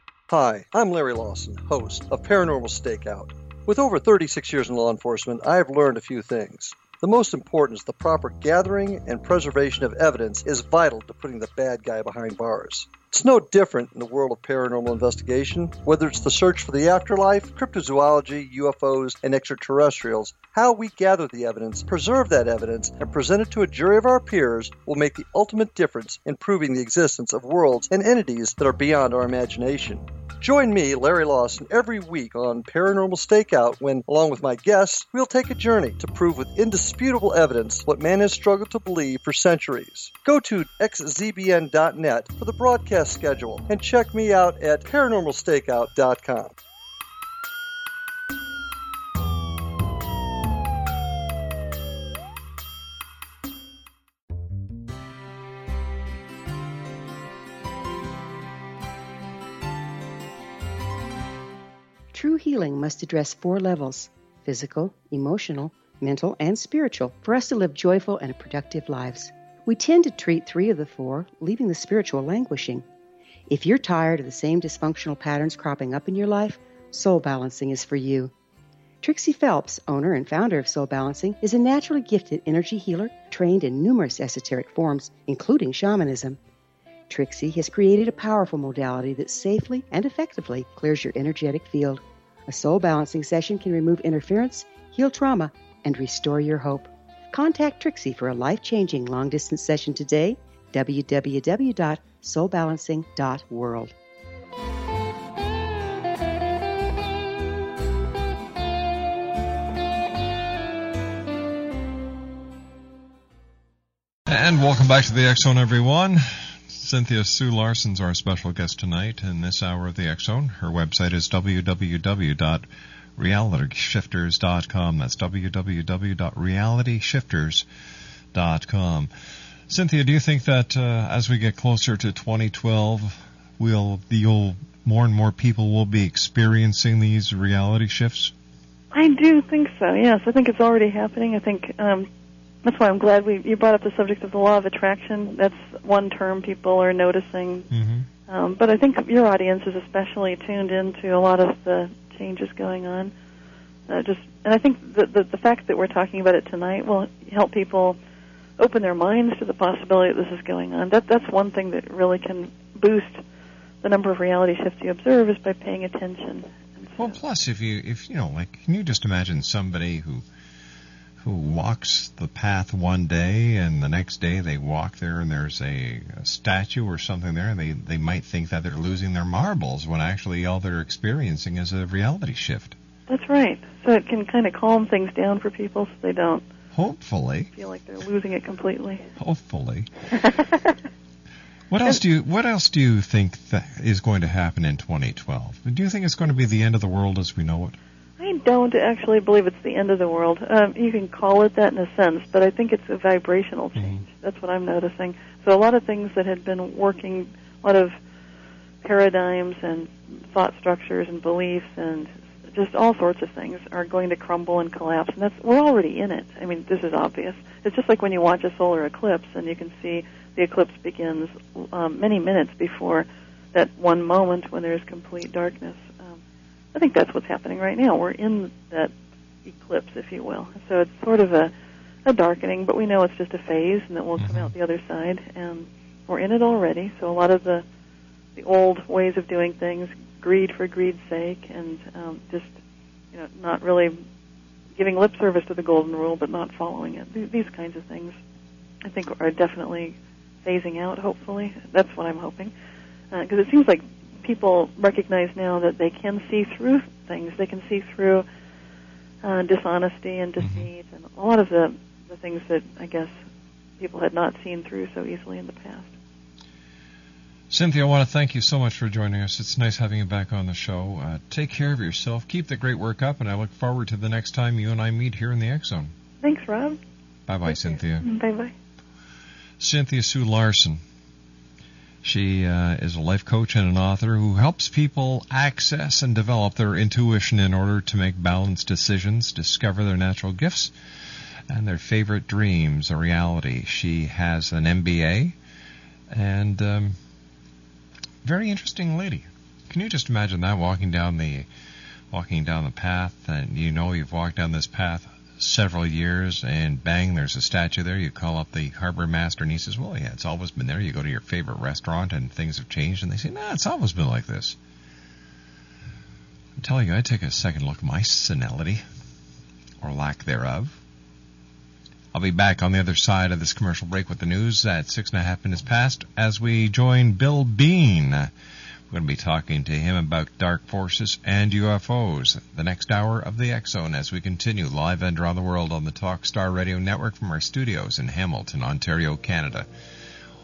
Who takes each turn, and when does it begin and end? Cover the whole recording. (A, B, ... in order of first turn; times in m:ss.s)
0:00.3-0:46.5 A
1:02.1-1:12.8 B
1:13.5-1:18.3 B
1:19.0-1:26.4 B
1:27.1-1:43.9 B
1:54.3-2:02.7 C
2:03.2-2:07.6 C
2:08.3-2:09.1 C
2:09.7-2:18.3 C
2:18.9-2:22.1 D
2:22.6-2:27.7 D
2:27.7-2:28.1 C
2:28.3-2:33.1 D
2:33.9-2:38.0 D
2:38.6-2:43.2 D
2:43.8-2:47.2 D
2:47.0-2:50.2 C
2:51.2-3:02.8 C
3:03.1-3:06.4 D
3:06.7-3:07.5 C
3:07.6-3:09.1 D
3:09.2-3:09.9 C
3:11.7-3:17.8 C
3:18.2-3:28.0 D
3:23.8-3:24.0 C
3:28.8-3:46.2 D
3:46.7-3:48.9 D
3:49.4-3:51.5 D
3:52.0-3:57.6 D
3:54.2-3:54.5 C
3:58.4-4:02.6 D
4:03.1-4:04.0 D
4:04.8-4:08.2 D
4:08.8-4:12.5 D
4:13.1-4:18.3 D
4:19.2-4:23.1 D
4:20.4-4:20.7 C
4:23.8-4:25.9 D
4:27.5-4:35.9 C
4:36.2-4:36.8 D
4:37.3-4:38.1 C
4:37.5-4:38.5 D
4:39.6-4:40.8 C
4:42.0-4:50.7 C
4:51.5-4:55.4 C
4:56.1-4:57.0 C
4:58.2-5:01.5 C
5:02.1-5:14.6 C
5:16.6-5:18.8 C
5:19.8-5:20.8 C
5:22.1-5:28.3 C
5:28.9-5:39.7 C